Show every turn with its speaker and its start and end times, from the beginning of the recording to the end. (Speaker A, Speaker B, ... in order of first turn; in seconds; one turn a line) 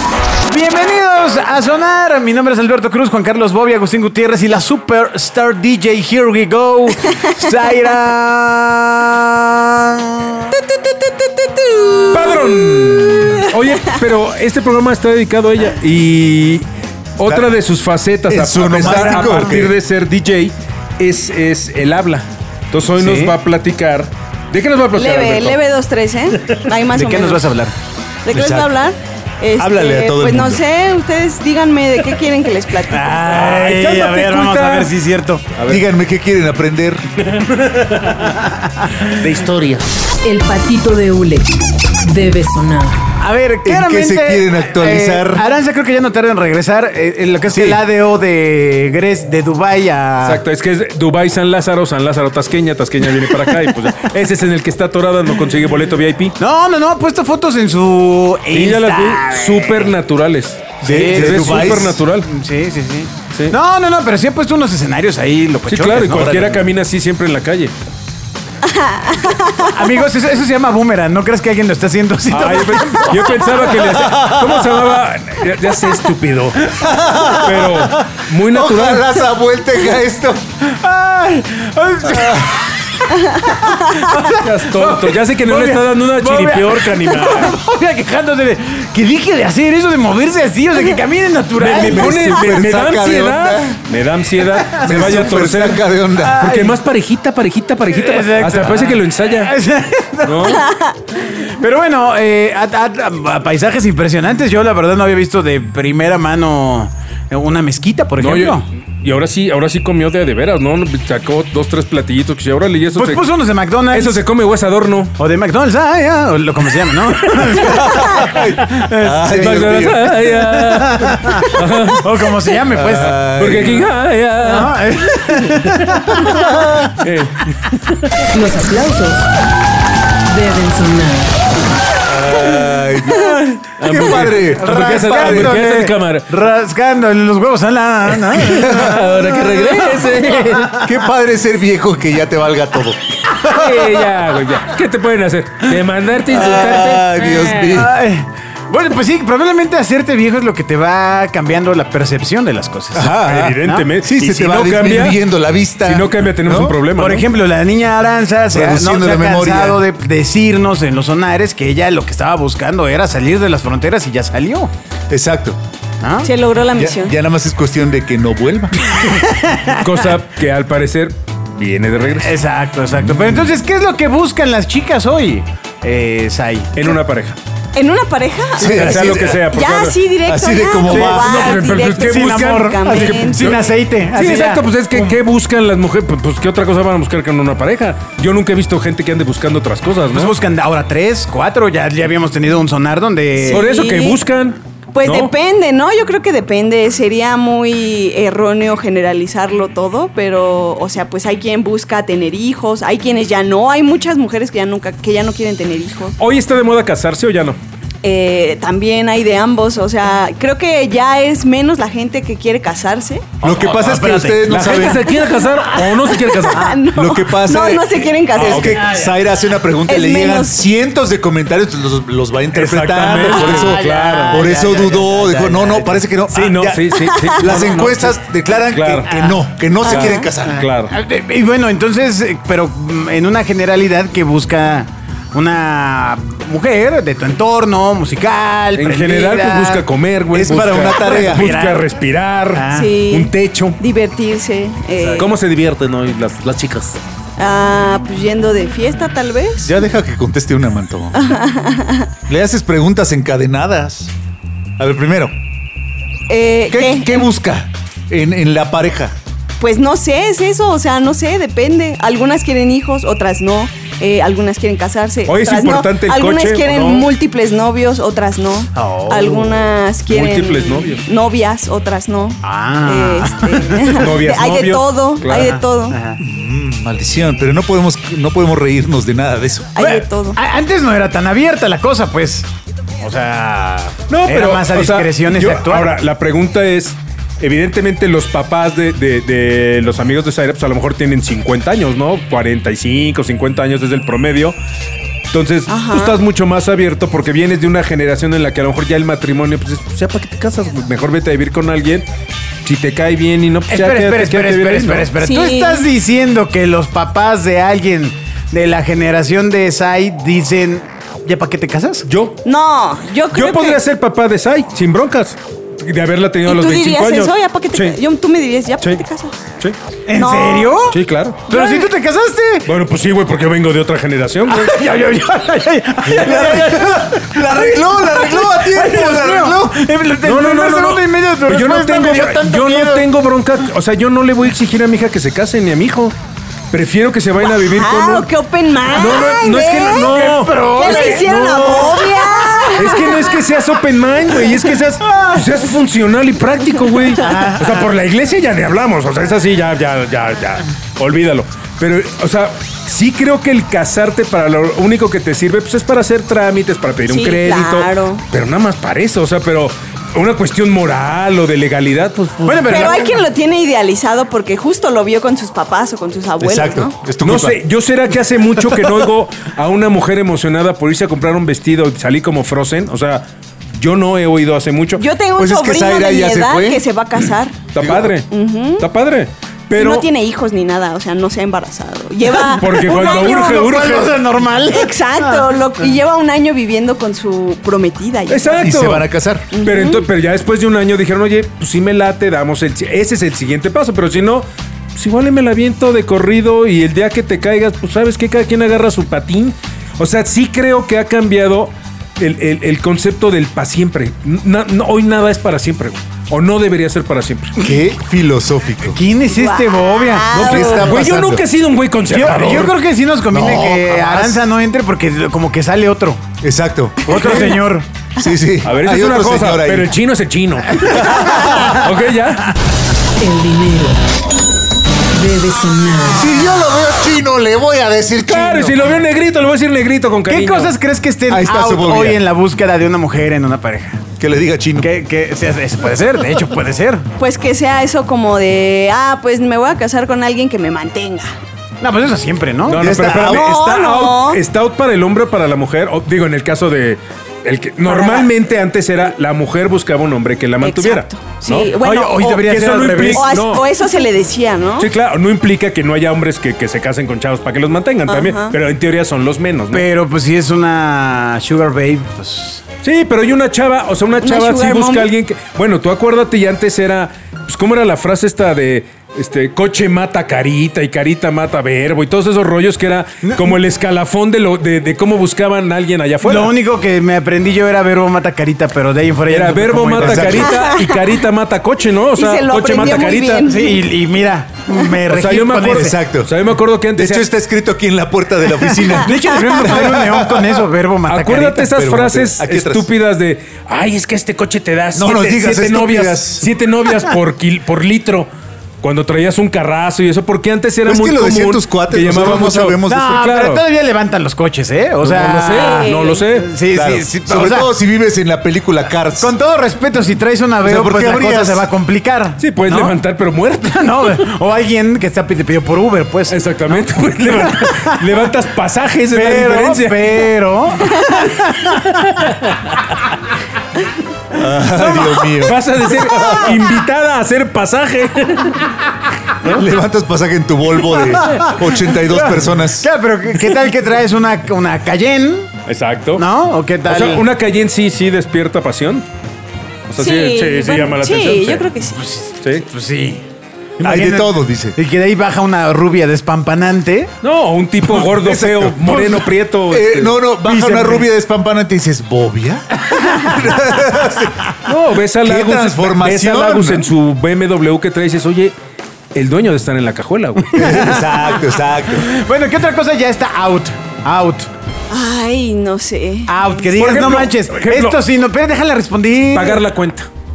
Speaker A: 0.4-12.4
Speaker B: 12.1-16.6
Speaker B: 17.2-25.6
Speaker C: 17.2-17.5
Speaker C: 18.3-19.7
Speaker A: 18.9-19.7
Speaker A: 22.9-23.4
Speaker D: 24.9-27.5
Speaker A: 26.9-27.7
Speaker D: 28.2-33.5
Speaker C: 28.3-28.7
Speaker C: 29.6-30.6
Speaker A: 32.8-35.5
Speaker B: 33.3-34.9
Speaker B: 35.5-35.8
Speaker C: 35.7-37.0
Speaker B: 37.2-38.3
Speaker A: 38.2-39.0
Speaker B: 39.0-39.9
Speaker E: 40.2-41.5
Speaker E: 42.0-43.0
Speaker A: 43.2-50.4
Speaker C: 43.6-45.4
Speaker C: 47.5-47.8
Speaker B: 50.2-56.4
Speaker A: 53.1-53.7
Speaker A: 56.4-59.9
Speaker B: 58.5-62.3
Speaker A: 60.8-66.5
Speaker C: 60.8-62.0
Speaker B: 63.3-63.6
Speaker B: 65.7-67.7
Speaker C: 66.2-66.6
Speaker D: 68.6-69.8
Speaker A: 69.6-73.7
Speaker B: 72.3-79.2
Speaker C: 73.9-74.8
Speaker A: 76.7-78.0
Speaker C: 76.9-77.7
Speaker C: 78.5-80.4
Speaker A: 80.6-92.6
Speaker C: 82.1-82.5
Speaker D: 83.2-84.1
Speaker B: 84.1-87.6
Speaker B: 91.5-99.5
Speaker C: 91.7-93.8
Speaker A: 94.4-95.1
Speaker C: 94.7-96.4
Speaker A: 96.2-96.8
Speaker A: 97.9-108.6
Speaker B: 100.2-100.7
Speaker D: 100.5-100.9
Speaker B: 108.2-113.3
Speaker A: 112.9-114.2
Speaker B: 113.8-115.1
Speaker A: 115.2-123.4
Speaker B: 117.3-118.4
Speaker C: 117.5-120.1
Speaker B: 119.3-126.3
Speaker C: 122.7-123.9
Speaker A: 124.4-126.9
Speaker B: 127.0-128.2
Speaker E: 128.3-129.3
Speaker E: 130.3-131.3
Speaker C: 132.1-135.6
Speaker A: 133.1-140.9
Speaker B: 133.8-136.3
Speaker B: 138.1-140.8
Speaker C: 138.6-139.0
Speaker C: 140.8-143.4
Speaker B: 143.4-147.8
Speaker A: 143.4-144.0
Speaker C: 146.3-147.9
Speaker A: 147.7-153.9
Speaker C: 152.9-156.8
Speaker B: 153.2-155.2
Speaker B: 155.8-157.3
Speaker A: 156.9-164.7
Speaker C: 158.5-159.8
Speaker C: 165.1-165.6
Speaker A: 166.0-166.3
Speaker D: 166.2-167.2
Speaker C: 166.7-168.9
Speaker A: 168.9-169.9
Speaker B: 169.7-172.4
Speaker A: 172.2-176.9
Speaker B: 176.7-177.4
Speaker D: 177.7-183.6
Speaker C: 178.6-179.4
Speaker B: 178.7-180.0
Speaker C: 180.2-181.5
Speaker B: 180.8-190.3
Speaker A: 182.0-185.2
Speaker A: 190.1-193.6
Speaker D: 193.5-194.2
Speaker B: 193.5-195.3
Speaker D: 194.9-206.2
Speaker B: 206.2-207.6
Speaker D: 208.0-213.3
Speaker C: 213.4-215.1
Speaker A: 213.4-216.8
Speaker B: 214.4-216.8
Speaker D: 216.3-218.8
Speaker C: 216.9-230.7
Speaker B: 218.3-218.8
Speaker A: 218.6-219.2
Speaker D: 219.8-220.6
Speaker B: 222.5-224.5
Speaker A: 223.0-226.5
Speaker B: 226.3-229.1
Speaker D: 226.9-227.4
Speaker A: 227.5-228.1
Speaker A: 229.1-229.4
Speaker D: 229.8-230.3
Speaker B: 229.8-230.9
Speaker A: 230.4-239.8
Speaker B: 238.7-243.8
Speaker C: 240.3-241.5
Speaker A: 240.9-241.9
Speaker A: 242.5-243.0
Speaker D: 242.7-245.3
Speaker A: 245.0-245.3
Speaker B: 245.2-247.0
Speaker D: 247.4-249.7
Speaker C: 249.6-251.3
Speaker D: 251.1-252.1
Speaker C: 252.3-254.1
Speaker C: 254.8-255.3
Speaker D: 256.3-257.2
Speaker C: 256.7-259.1
Speaker D: 259.6-276.0
Speaker B: 265.3-267.1
Speaker A: 268.7-269.7
Speaker B: 270.1-271.1
Speaker A: 272.4-274.0
Speaker B: 273.9-275.6
Speaker A: 275.4-276.2
Speaker C: 276.2-279.7
Speaker D: 279.7-280.4
Speaker A: 279.8-282.5
Speaker A: 283.0-285.9
Speaker B: 284.1-294.6
Speaker B: 295.3-302.1
Speaker D: 295.7-296.2
Speaker B: 302.6-305.1
Speaker A: 303.7-312.0
Speaker D: 305.2-305.9
Speaker B: 312.0-312.4
Speaker D: 312.4-313.8
Speaker B: 313.3-318.0
Speaker D: 316.4-319.4
Speaker A: 320.1-322.7
Speaker D: 320.1-320.8
Speaker B: 320.9-321.4
Speaker D: 321.5-321.9
Speaker B: 322.6-324.8
Speaker A: 324.4-333.0
Speaker B: 326.1-326.5
Speaker C: 326.1-329.7
Speaker B: 330.2-336.1
Speaker B: 336.7-338.3
Speaker D: 337.4-340.1
Speaker B: 338.9-342.1
Speaker A: 339.9-342.3
Speaker D: 340.7-343.4
Speaker B: 342.7-363.0
Speaker A: 347.2-347.9
Speaker D: 357.1-358.2
Speaker A: 362.4-363.2
Speaker D: 362.7-366.9
Speaker C: 366.4-367.6
Speaker B: 367.2-375.0
Speaker D: 374.9-377.6
Speaker C: 375.4-376.8
Speaker B: 377.7-380.1
Speaker C: 377.8-378.1
Speaker D: 378.3-378.9
Speaker D: 379.7-383.6
Speaker B: 382.4-384.2
Speaker A: 382.5-385.5
Speaker D: 384.7-388.8
Speaker B: 388.3-407.6
Speaker C: 388.6-389.5
Speaker D: 389.5-390.1
Speaker C: 407.6-409.0
Speaker A: 408.8-410.3
Speaker D: 409.3-411.0
Speaker B: 410.3-412.8
Speaker C: 410.3-411.4
Speaker A: 412.1-416.2
Speaker C: 413.3-414.4
Speaker C: 416.4-417.2
Speaker A: 417.0-417.9
Speaker B: 417.1-417.6
Speaker C: 418.2-419.9
Speaker B: 418.6-422.6
Speaker C: 420.9-421.9
Speaker A: 421.1-421.9
Speaker E: 423.2-424.0
Speaker E: 425.1-426.3
Speaker C: 426.2-428.9
Speaker B: 428.2-430.7
Speaker A: 430.3-434.0
Speaker C: 431.3-432.2
Speaker C: 434.2-434.9
Speaker A: 434.8-437.0
Speaker D: 437.2-441.3
Speaker A: 441.8-443.3
Speaker B: 442.6-453.6
Speaker C: 442.7-443.5
Speaker D: 443.3-444.4
Speaker D: 447.8-448.3
Speaker D: 450.6-452.2
Speaker A: 451.8-453.3
Speaker D: 453.1-454.9
Speaker B: 454.8-459.9
Speaker D: 458.1-458.5
Speaker A: 459.7-462.6
Speaker B: 462.8-476.5
Speaker D: 464.2-465.1
Speaker A: 473.2-473.5
Speaker A: 476.2-480.5
Speaker B: 479.3-483.5
Speaker C: 480.0-480.5
Speaker D: 480.4-481.0
Speaker D: 482.1-483.9
Speaker A: 483.4-486.0
Speaker B: 485.1-487.3
Speaker C: 485.7-486.3
Speaker C: 486.9-490.6
Speaker A: 488.7-491.7
Speaker B: 491.0-498.3
Speaker C: 491.7-492.9
Speaker C: 494.9-496.5
Speaker B: 498.8-503.6
Speaker C: 500.9-503.1
Speaker A: 502.9-507.7
Speaker B: 505.0-506.5
Speaker D: 505.5-506.2
Speaker C: 506.7-509.3
Speaker A: 509.1-513.0
Speaker C: 510.6-511.6
Speaker B: 512.4-514.3
Speaker A: 513.6-517.9
Speaker B: 516.3-520.3
Speaker A: 519.1-521.9
Speaker B: 521.0-522.9
Speaker C: 524.3-526.6
Speaker A: 524.6-526.4
Speaker B: 525.4-528.8
Speaker B: 529.4-529.7
Speaker C: 529.4-532.9
Speaker A: 530.9-535.5
Speaker B: 535.6-536.2
Speaker A: 536.2-537.2
Speaker B: 536.8-539.0
Speaker B: 539.9-541.7
Speaker D: 540.0-542.0
Speaker A: 541.9-543.2
Speaker B: 542.4-542.6
Speaker A: 543.8-547.1
Speaker C: 543.8-544.8
Speaker B: 547.2-550.2
Speaker C: 547.8-554.4
Speaker A: 550.4-551.1
Speaker A: 552.9-553.4
Speaker B: 554.6-558.5
Speaker C: 555.2-556.9
Speaker B: 559.1-560.8
Speaker A: 560.5-564.5
Speaker C: 560.5-562.1
Speaker D: 564.9-566.7
Speaker A: 566.3-569.6
Speaker B: 566.8-568.0
Speaker B: 569.3-570.1